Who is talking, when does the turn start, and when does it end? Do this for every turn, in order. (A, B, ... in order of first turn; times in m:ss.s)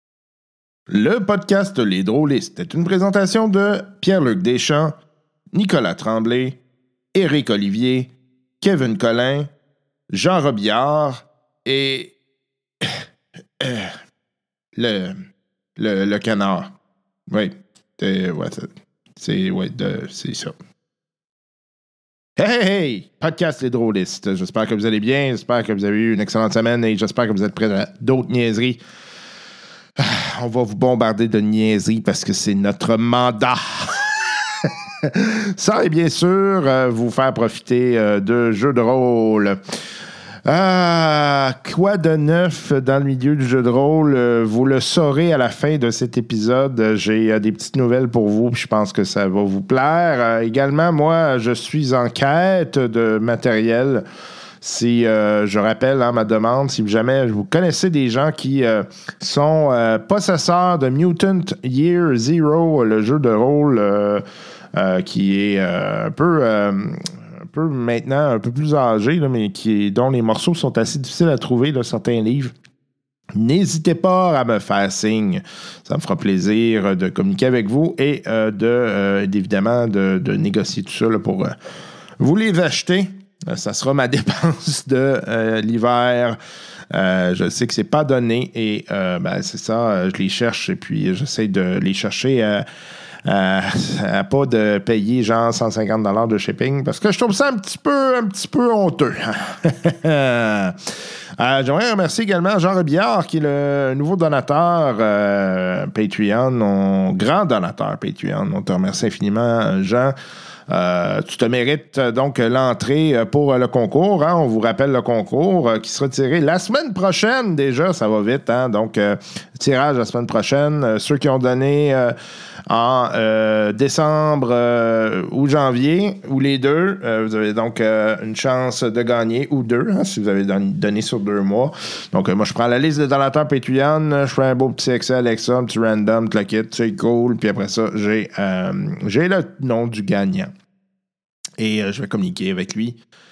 0:00.9-0:05.0 A
0:05.5-0:06.6 A
0:07.1-0:09.5 A
0:10.1-0:12.1 A
0:13.6-0:14.0 A
0:14.8-0:15.2 A
0:15.8-0:16.7 A
0:17.3-0:20.5 A
0:22.4-0:28.8 A
0:30.0-0:39.6 A
0:40.4-0:54.0 A
0:54.6-1:12.5 A
1:13.3-1:21.6 A
1:22.2-1:26.4 A
1:26.9-1:32.6 A
1:33.2-1:40.8 A
1:41.4-1:50.1 A
1:50.7-2:02.1 A
2:02.7-2:20.5 A
2:21.6-2:23.0 A